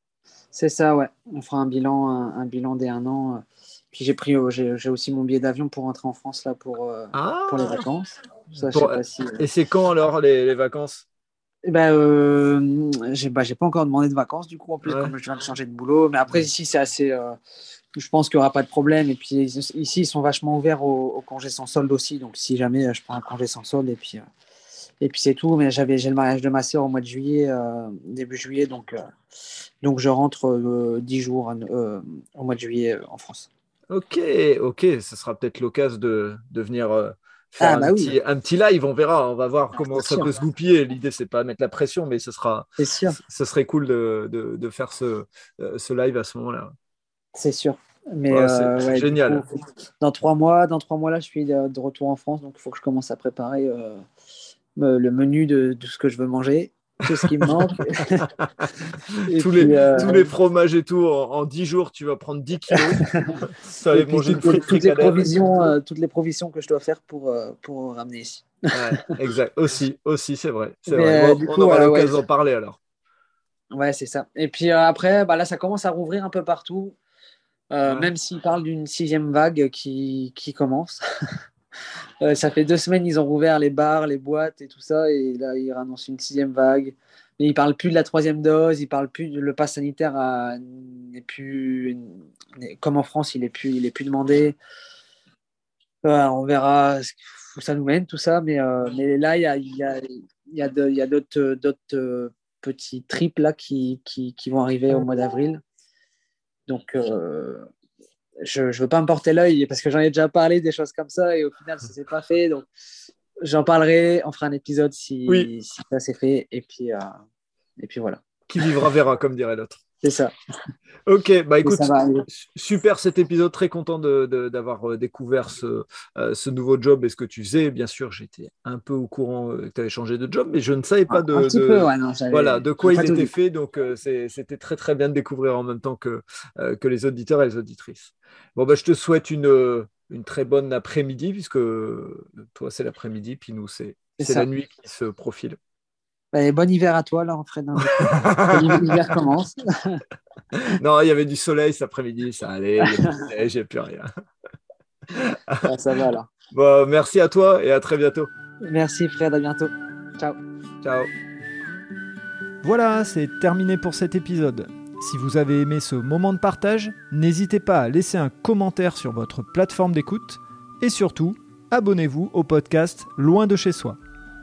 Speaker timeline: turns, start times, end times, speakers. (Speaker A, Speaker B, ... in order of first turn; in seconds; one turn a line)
Speaker A: 0.5-9.4
Speaker B: 7.1-7.8
Speaker B: 8.6-11.1
Speaker A: 11.7-17.4
Speaker B: 14.8-15.1
Speaker A: 18.0-24.2
Speaker A: 25.0-29.0
Speaker A: 29.8-33.5
Speaker B: 33.9-46.7
Speaker A: 37.6-38.1
Speaker A: 39.9-40.3
Speaker A: 42.8-43.2
Speaker A: 47.4-54.0
Speaker B: 48.3-49.4
Speaker A: 54.8-58.3
Speaker B: 57.2-57.7
Speaker B: 58.3-65.4
Speaker A: 59.3-60.3
Speaker A: 62.7-63.4
Speaker A: 63.9-68.5
Speaker B: 68.7-72.8
Speaker A: 70.9-72.2
Speaker A: 73.7-77.0
Speaker A: 77.7-81.0
Speaker B: 77.9-78.1
Speaker A: 82.2-94.6
Speaker A: 96.0-105.6
Speaker A: 106.7-107.7
Speaker A: 108.4-112.7
Speaker A: 113.4-117.1
Speaker A: 117.8-118.8
Speaker B: 118.5-119.8
Speaker A: 120.0-120.3
Speaker B: 121.1-145.6
Speaker A: 121.6-122.3
Speaker A: 131.1-133.3
Speaker A: 144.2-144.5
Speaker A: 146.3-150.0
Speaker B: 148.0-149.1
Speaker B: 150.6-154.1
Speaker A: 152.8-153.2
Speaker B: 155.1-155.7
Speaker A: 155.6-156.3
Speaker B: 156.5-158.3
Speaker A: 158.6-160.4
Speaker B: 160.8-161.1
Speaker C: 162.6-174.0